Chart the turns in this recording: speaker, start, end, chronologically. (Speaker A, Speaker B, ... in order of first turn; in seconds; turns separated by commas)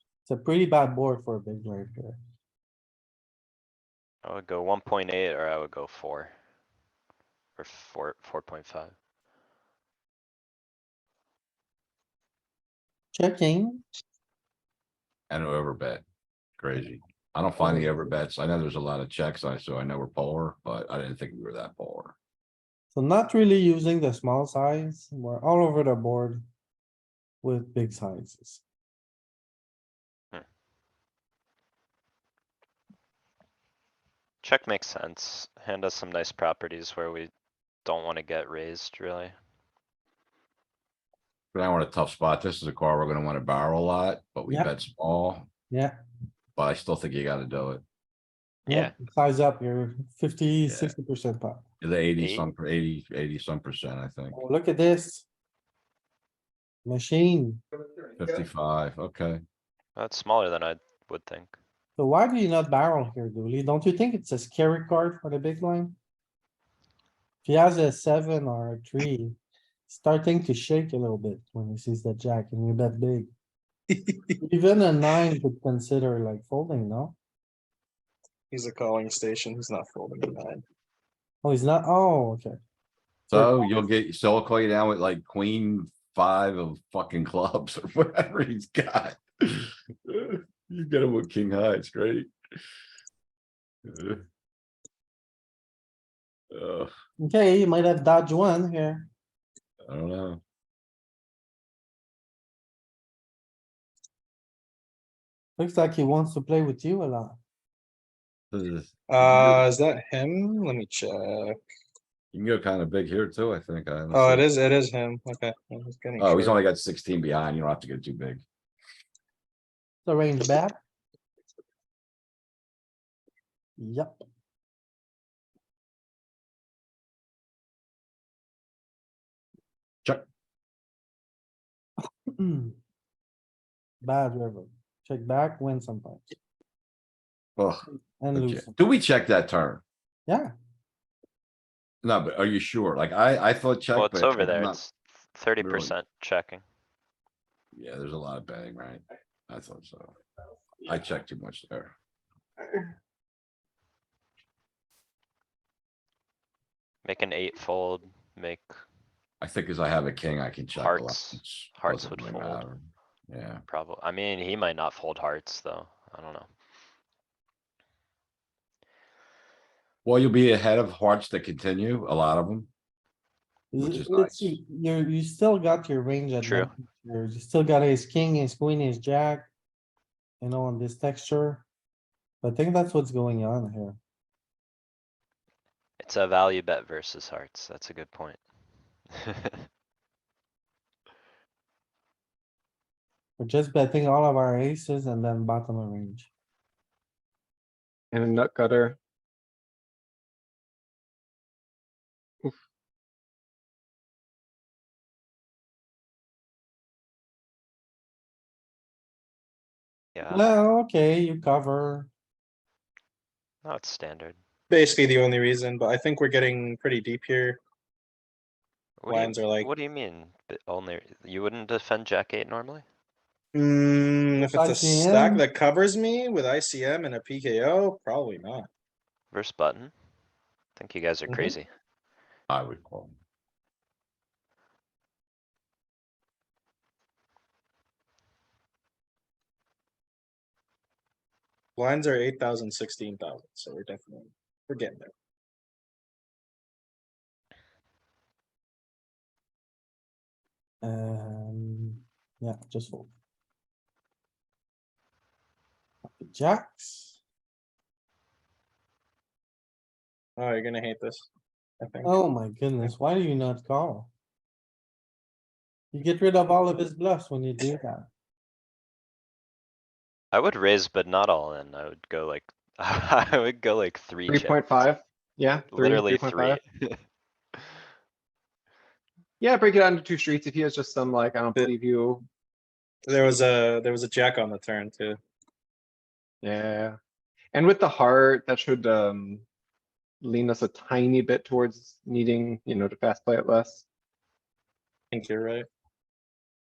Speaker A: 0.2-2.2, Speaker B: 4.2-6.3, Speaker B: 7.6-8.9, Speaker A: 13.1-13.8, Speaker C: 15.3-16.0, Speaker C: 16.6-22.1, Speaker A: 17.6-18.0, Speaker A: 22.9-26.5, Speaker A: 27.4-28.6, Speaker B: 34.4-37.3, Speaker B: 37.8-39.3, Speaker C: 41.5-45.5, Speaker A: 44.5-44.7, Speaker A: 45.7-46.0, Speaker C: 46.5-47.8, Speaker B: 48.6-48.9, Speaker A: 48.7-51.6, Speaker C: 50.7-50.9, Speaker C: 51.8-54.4, Speaker B: 52.2-52.5, Speaker A: 54.3-55.2, Speaker A: 56.8-57.6, Speaker C: 58.1-59.4, Speaker B: 60.0-61.5, Speaker A: 62.0-66.0, Speaker A: 67.4-69.4, Speaker A: 69.9-73.3, Speaker D: 73.9-74.4, Speaker A: 74.4-77.2, Speaker D: 78.5-80.6, Speaker A: 81.4-82.6, Speaker C: 83.3-92.3, Speaker A: 83.3-83.6, Speaker C: 93.8-94.2, Speaker C: 96.5-96.9, Speaker A: 97.2-99.1, Speaker C: 99.9-100.4, Speaker A: 105.6-107.4, Speaker C: 108.5-109.7, Speaker D: 109.1-111.6, Speaker C: 112.3-114.5, Speaker D: 114.1-116.6, Speaker C: 116.2-118.4, Speaker A: 120.0-120.8, Speaker A: 123.8-124.2, Speaker A: 132.3-132.8, Speaker A: 134.0-136.3, Speaker C: 137.6-139.8, Speaker A: 138.2-138.8, Speaker A: 140.3-140.5, Speaker C: 142.0-144.8, Speaker B: 143.9-146.6, Speaker C: 145.6-145.9, Speaker C: 147.7-150.1, Speaker C: 150.8-151.9, Speaker B: 157.0-158.7, Speaker C: 159.4-163.6, Speaker B: 160.7-162.7, Speaker B: 163.7-166.5, Speaker C: 170.0-172.7, Speaker A: 173.7-179.5, Speaker C: 173.8-174.6, Speaker B: 176.4-176.7, Speaker A: 180.4-181.7, Speaker A: 182.4-184.0, Speaker B: 186.0-188.4, Speaker B: 189.2-189.6, Speaker A: 193.4-196.3, Speaker E: 198.1-199.0, Speaker B: 210.2-210.5, Speaker A: 210.3-212.1, Speaker B: 213.6-214.4, Speaker D: 214.7-217.6, Speaker B: 219.0-222.8, Speaker D: 219.1-219.7, Speaker D: 223.5-228.7, Speaker A: 224.5-225.5, Speaker B: 229.3-229.9, Speaker B: 230.8-231.7, Speaker C: 232.5-233.1, Speaker D: 241.8-245.1, Speaker A: 250.8-253.1, Speaker A: 256.0-257.2, Speaker D: 260.4-261.3, Speaker D: 261.8-262.1, Speaker A: 262.0-264.1, Speaker A: 265.9-268.1, Speaker B: 270.3-274.6, Speaker E: 274.3-276.6, Speaker B: 275.7-277.0, Speaker E: 279.4-282.2, Speaker D: 283.1-285.2, Speaker E: 286.4-287.0, Speaker E: 287.5-289.4, Speaker E: 290.2-293.8, Speaker D: 295.1-295.6